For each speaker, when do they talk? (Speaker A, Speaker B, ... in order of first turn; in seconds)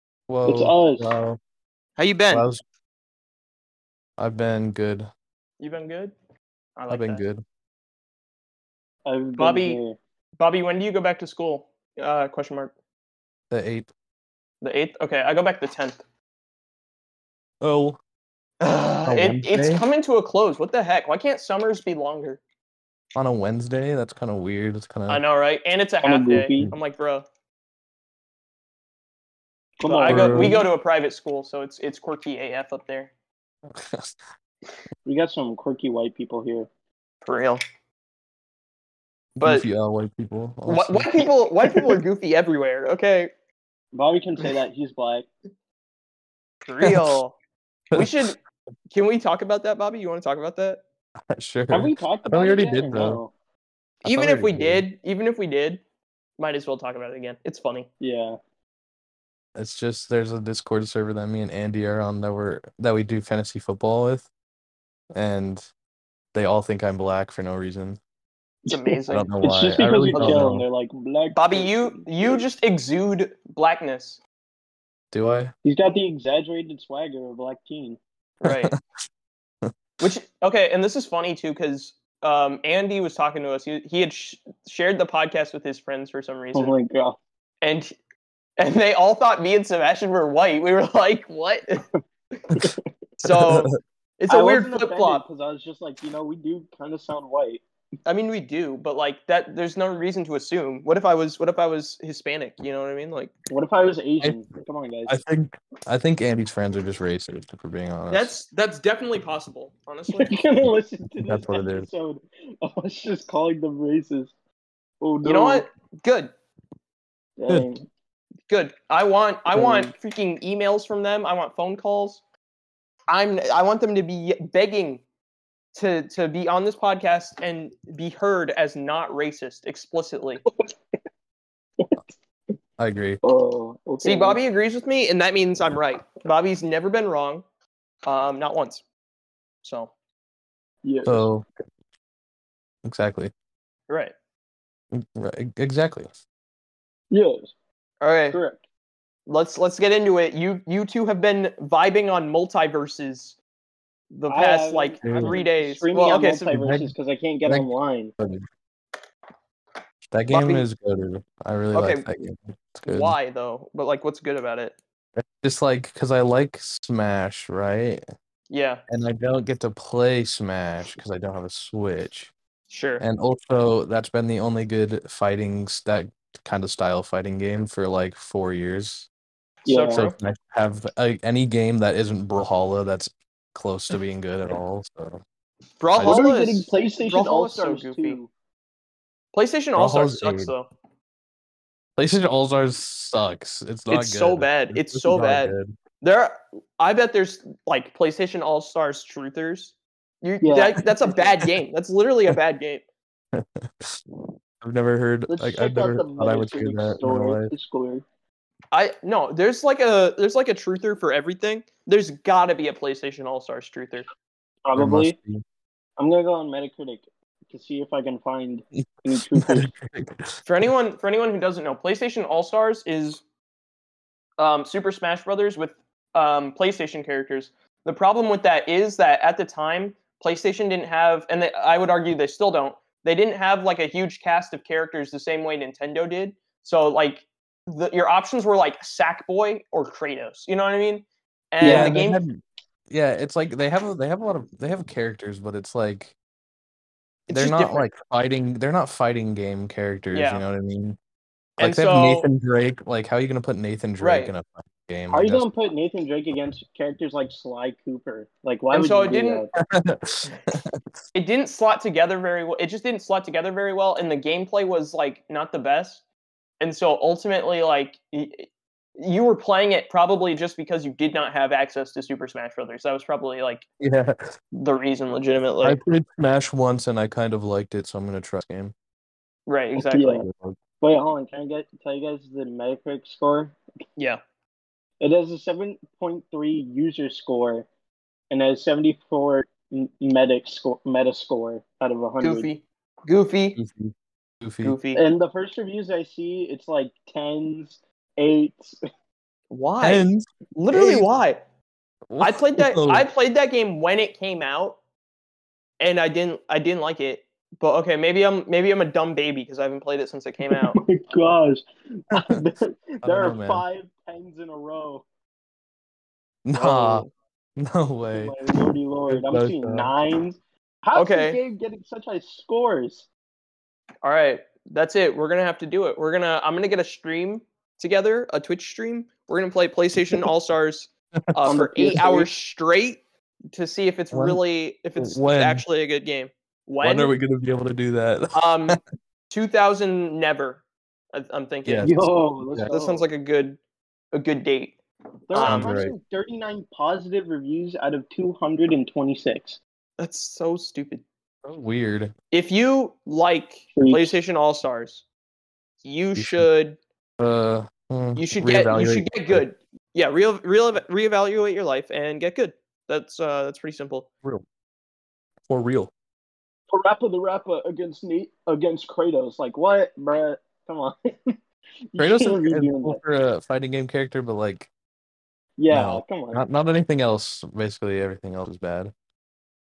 Speaker A: 0.3-1.4, 2.3-2.6, 4.2-5.1, 6.9-7.4, 13.5-13.9, 17.6-18.0, 19.1-19.8, 23.1-25.2, 30.1-30.6, 33.7-34.1, 39.4-41.2, 46.8-47.1, 47.9-48.3, 51.3-53.2, 54.0-54.8, 59.5-64.3, 65.1-65.6, 66.3-68.0, 69.1-70.6, 75.1-75.5, 93.2-93.7, 105.1-108.3, 111.2-111.9, 132.8-133.2, 141.0-141.4, 142.8-143.3, 144.9-146.1, 155.0-155.4, 156.5-156.9, 157.4-158.4, 160.1-163.2, 165.2-168.0, 168.9-172.3, 173.0-179.1, 179.9-185.2, 185.9-186.2, 189.8-190.5, 192.0-195.7, 203.3-204.0, 204.6-207.5, 214.8-215.4, 218.8-220.4, 241.6-242.4, 242.9-246.1, 247.3-251.0, 251.6-255.4, 259.6-260.8, 273.8-274.3, 275.6-278.7, 280.2-280.6, 293.6-294.8, 299.8-301.1, 302.1-303.1, 312.1-312.4, 313.0-313.6, 316.4-318.4, 319.1-319.9, 334.1-334.4, 334.9-335.6, 336.8-338.8, 341.6-342.7, 345.4-345.9, 351.4-352.1, 356.1-356.5, 357.2-359.4, 365.5-365.9, 372.0-374.7, 375.7-378.9
Speaker B: 0.5-1.1, 9.0-10.0, 26.0-26.7, 29.8-30.7, 35.0-36.7, 43.9-45.3, 51.7-53.3, 58.0-58.4, 68.7-72.5, 75.6-78.0, 86.5-87.2, 92.5-92.8, 94.3-97.6, 103.5-105.2, 110.1-114.3, 115.0-115.7, 117.4-117.8, 119.5-119.9, 133.2-134.4, 140.8-141.3, 147.1-147.5, 148.3-148.6, 154.3-158.1, 179.7-180.0, 186.0-188.3, 200.4-201.2, 205.3-208.0, 214.6-215.2, 216.0-219.7, 241.6-242.0, 255.1-259.5, 279.8-280.2, 280.8-283.6, 285.0-287.7, 288.3-292.5, 294.9-298.8, 310.4-315.1, 316.5-317.1, 318.1-323.1, 331.5-332.3, 341.8-343.1, 345.3-349.6, 353.7-354.2, 366.7-371.4, 371.9-373.0, 375.6-376.4
Speaker C: 2.0-2.4, 5.6-6.1, 6.8-7.2, 9.4-9.8, 10.4-12.7, 14.6-16.0, 18.6-22.4, 25.1-27.2, 29.8-33.1, 37.2-37.6, 40.6-43.3, 46.6-47.4, 47.9-48.4, 48.9-50.8, 54.0-55.8, 56.4-57.9, 68.7-69.3, 70.1-70.4, 71.3-74.2, 78.4-78.7, 80.0-86.7, 87.6-87.9, 88.6-91.8, 93.2-95.2, 98.0-103.3, 108.1-110.4, 115.2-116.3, 118.5-122.2, 123.1-125.0, 125.7-130.4, 134.0-137.4, 138.0-138.8, 139.6-139.9, 143.9-144.1, 148.0-148.4, 149.3-153.3, 154.1-156.5, 160.3-160.7, 161.7-162.1, 162.9-164.8, 168.5-168.8, 172.7-173.0, 179.7-180.2, 185.8-188.2, 189.3-190.7, 193.9-202.8, 208.7-214.1, 220.4-223.2, 224.4-242.2, 247.3-247.9, 250.1-250.4, 251.6-252.3, 254.0-254.3, 258.7-259.4, 261.1-266.0, 266.6-273.6, 274.5-275.8, 279.5-280.2, 292.2-293.6, 294.6-295.0, 299.5-301.4, 302.2-304.8, 305.8-310.8, 320.9-321.4, 324.0-333.0, 333.5-337.1, 338.3-338.8, 339.3-341.9, 342.7-343.6, 344.1-344.8, 345.3-345.7, 350.0-351.0, 352.3-355.0, 355.8-356.8, 358.1-364.1